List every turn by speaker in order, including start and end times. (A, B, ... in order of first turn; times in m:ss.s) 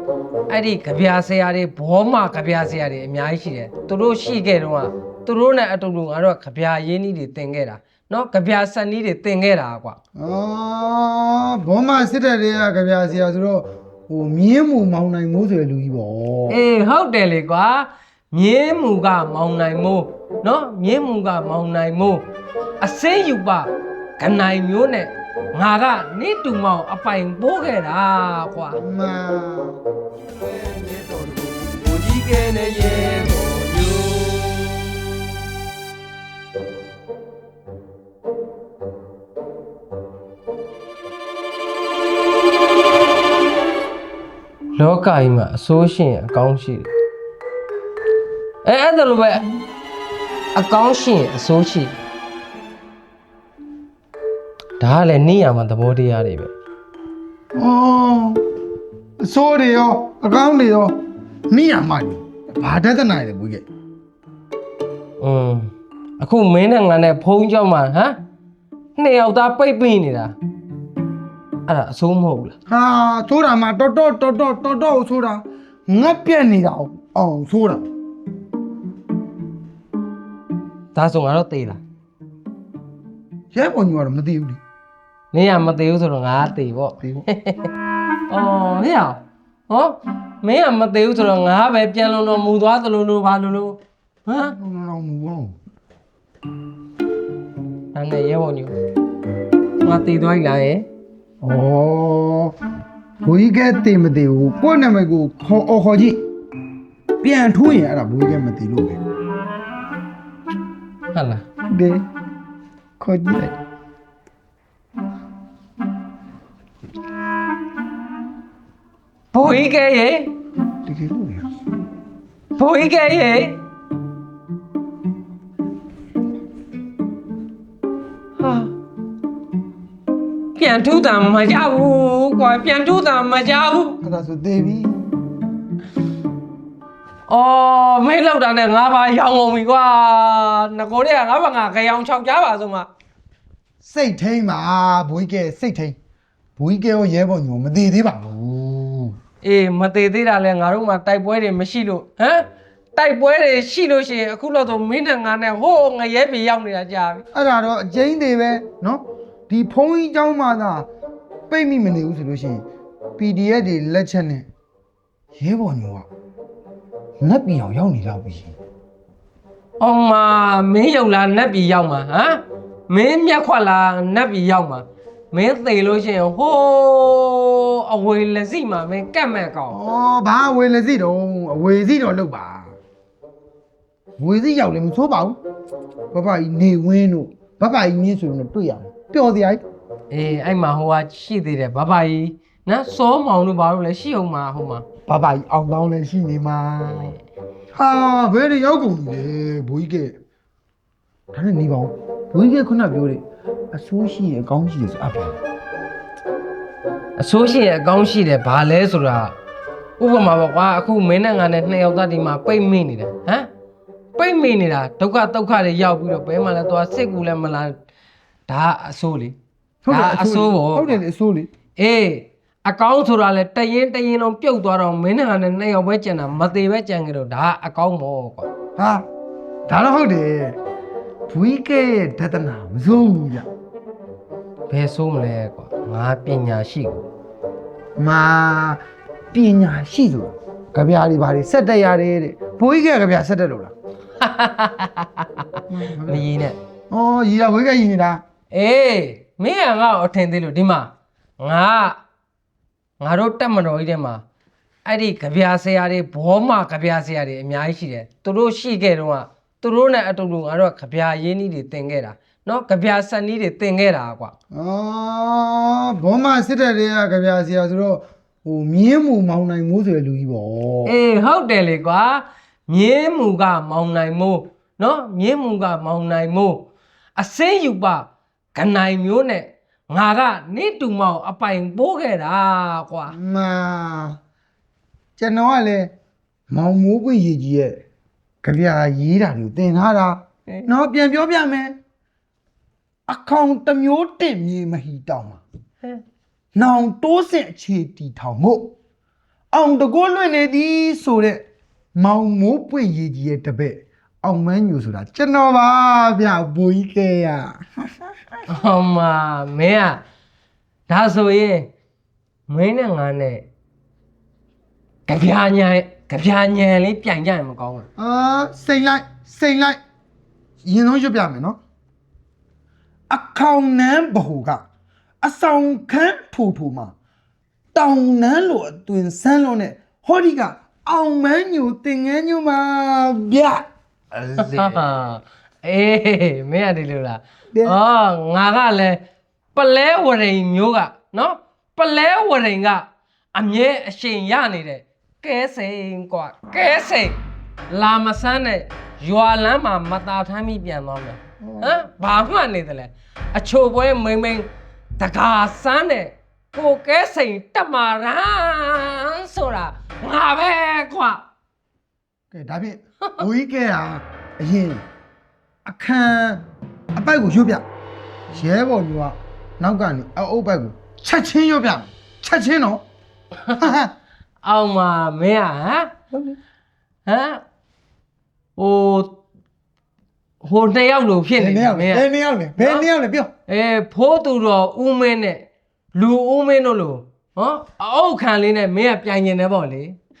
0:00.5-0:10.0 A
0:10.2-0:16.6 B
0:16.5-0:22.2 A
0:22.8-0:28.8 A
0:28.8-0:29.8 B
0:30.4-0:34.6 A
0:44.8-0:46.9 A
0:48.6-0:49.6 A
0:50.5-0:51.9 A
0:54.8-0:56.5 A
0:57.6-0:58.4 B
0:59.2-1:01.0 B
1:01.5-1:03.6 B
1:05.2-1:08.2 A
1:09.0-1:10.4 A
1:11.7-1:12.5 A
1:12.7-1:17.8 B
1:20.9-1:21.8 A
1:23.5-1:24.6 B
1:25.3-1:27.7 A
1:28.3-1:34.5 A
1:34.4-1:35.6 B
1:37.9-1:38.7 A
1:39.8-1:40.8 A
1:41.4-1:42.6 B
1:43.2-1:46.2 B
1:47.2-1:49.0 B
1:51.1-1:51.4 A
1:51.7-1:52.0 B
1:53.0-1:53.6 B
1:59.3-2:00.3 A
2:00.8-2:01.5 B
2:02.6-2:03.6 A
2:08.4-2:08.7 A
2:10.6-2:14.0 A
2:14.0-2:15.1 B
2:17.3-2:22.9 A
2:23.8-2:26.0 B
2:26.6-2:29.2 B
2:29.4-2:37.2 A
2:37.3-2:40.9 B
2:41.5-2:42.6 B
2:43.2-2:44.4 B
2:45.3-2:46.1 B
2:47.2-2:48.6 B
2:49.8-2:59.8 A
2:59.7-3:02.8 B
3:04.2-3:05.4 B
3:06.1-3:09.6 B
3:10.1-3:14.8 A
3:15.1-3:17.2 B
3:17.7-3:20.2 B
3:21.3-3:25.4 B
3:27.2-3:29.3 A
3:30.0-3:33.5 A
3:34.2-3:37.8 A
3:38.5-3:39.4 A
3:39.8-3:41.5 B
3:39.9-3:41.0 A
3:41.8-3:48.5 A
3:48.8-3:49.0 B
3:49.7-3:50.6 B
3:51.3-3:53.5 B
3:54.7-3:57.0 A
3:58.0-4:03.7 B
4:04.2-4:06.6 A
4:05.7-4:06.3 B
4:06.9-4:08.2 B
4:08.5-4:12.0 A
4:13.0-4:14.2 A
4:14.8-4:24.3 A
4:24.5-4:30.9 B
4:30.8-4:43.2 A
4:43.1-4:44.2 B
4:45.2-4:45.9 B
4:46.5-4:47.8 B
4:48.4-4:51.8 B
4:53.1-4:55.4 B
4:56.5-4:58.7 B
4:59.5-5:01.4 B
5:01.9-5:07.7 B
5:08.5-5:10.0 A
5:10.9-5:11.7 A
5:12.5-5:13.5 A
5:15.1-5:17.9 A
5:18.0-5:19.8 B
5:20.6-5:21.6 B
5:23.1-5:24.6 B
5:25.2-5:26.9 B
5:27.7-5:34.8 B
5:34.4-5:39.0 A
5:37.5-5:37.8 B
5:39.5-5:47.2 A
5:47.7-5:54.5 A
5:51.4-5:51.8 B
5:55.0-6:01.2 A
6:02.3-6:04.8 B
6:05.6-6:07.6 B
6:08.3-6:12.8 B
6:13.4-6:13.7 A
6:13.5-6:13.9 B
6:14.4-6:15.9 A
6:16.1-6:16.4 B
6:17.0-6:17.4 A
6:18.6-6:19.2 A
6:20.4-6:22.0 A
6:21.4-6:23.3 B
6:22.6-6:22.8 A
6:23.5-6:30.0 A